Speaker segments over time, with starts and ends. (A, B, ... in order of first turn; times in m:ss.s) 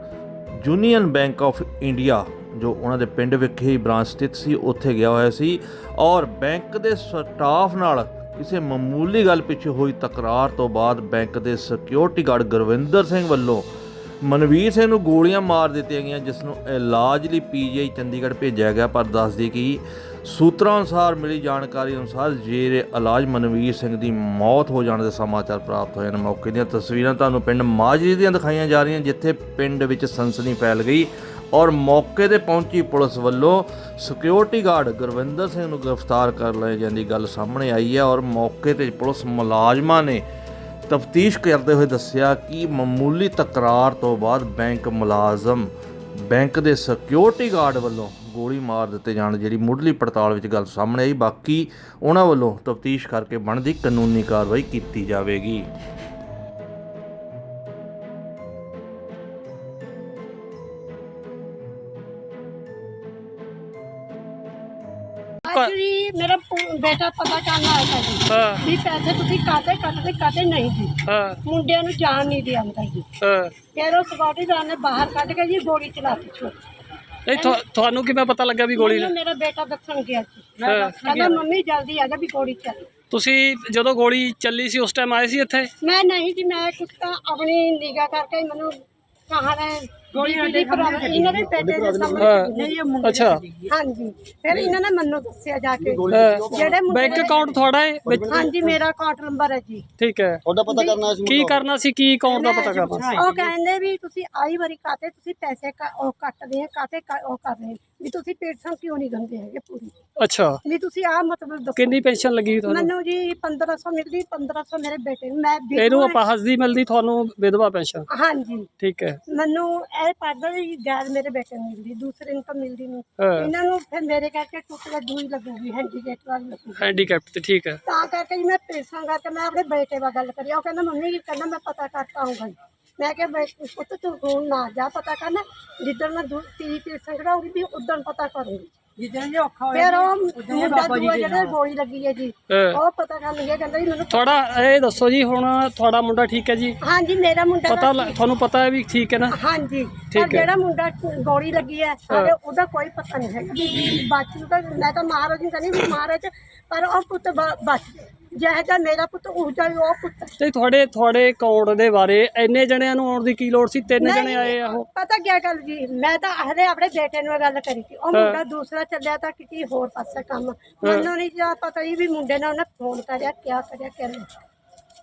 0:00.6-0:13.7 A
0:14.2-0:40.2 A
0:40.9-0:55.7 A
1:05.4-1:13.1 B
1:05.5-1:05.7 C
1:08.3-1:08.6 C
1:11.1-1:11.4 C
1:13.2-1:13.5 C
1:13.7-1:16.6 B
1:17.2-1:19.1 C
1:17.3-1:17.6 B
1:18.8-1:22.9 B
1:20.6-1:21.4 D
1:20.6-1:21.3 C
1:23.1-1:25.7 C
1:25.8-1:32.9 B
1:30.1-1:31.6 D
1:31.5-1:32.4 E
1:32.2-1:33.4 C
1:32.5-1:33.7 D
1:33.7-1:37.6 B
1:35.8-1:37.1 E
1:36.1-1:38.4 C
1:38.0-1:38.8 E
1:38.3-1:39.9 B
1:40.0-1:40.4 C
1:40.4-1:41.6 E
1:40.7-1:41.0 B
1:41.2-1:43.2 C
1:42.2-1:49.9 B
1:42.9-1:43.5 D
1:50.2-1:50.6 C
1:50.6-1:52.1 B
1:51.8-1:52.9 C
1:52.6-1:56.2 B
1:55.8-1:58.1 C
1:58.1-1:58.7 B
1:58.8-1:59.2 C
1:59.3-2:06.9 B
2:03.2-2:03.5 C
2:06.8-2:07.8 C
2:07.8-2:18.7 B
2:19.0-2:21.6 D
2:19.7-2:24.2 B
2:22.5-2:22.8 C
2:24.1-2:26.8 C
2:26.8-2:28.2 B
2:27.7-2:29.3 C
2:29.3-2:40.4 B
2:30.1-2:30.5 C
2:40.4-2:44.8 C
2:44.0-2:54.3 B
2:48.1-2:48.4 C
2:50.8-2:51.1 C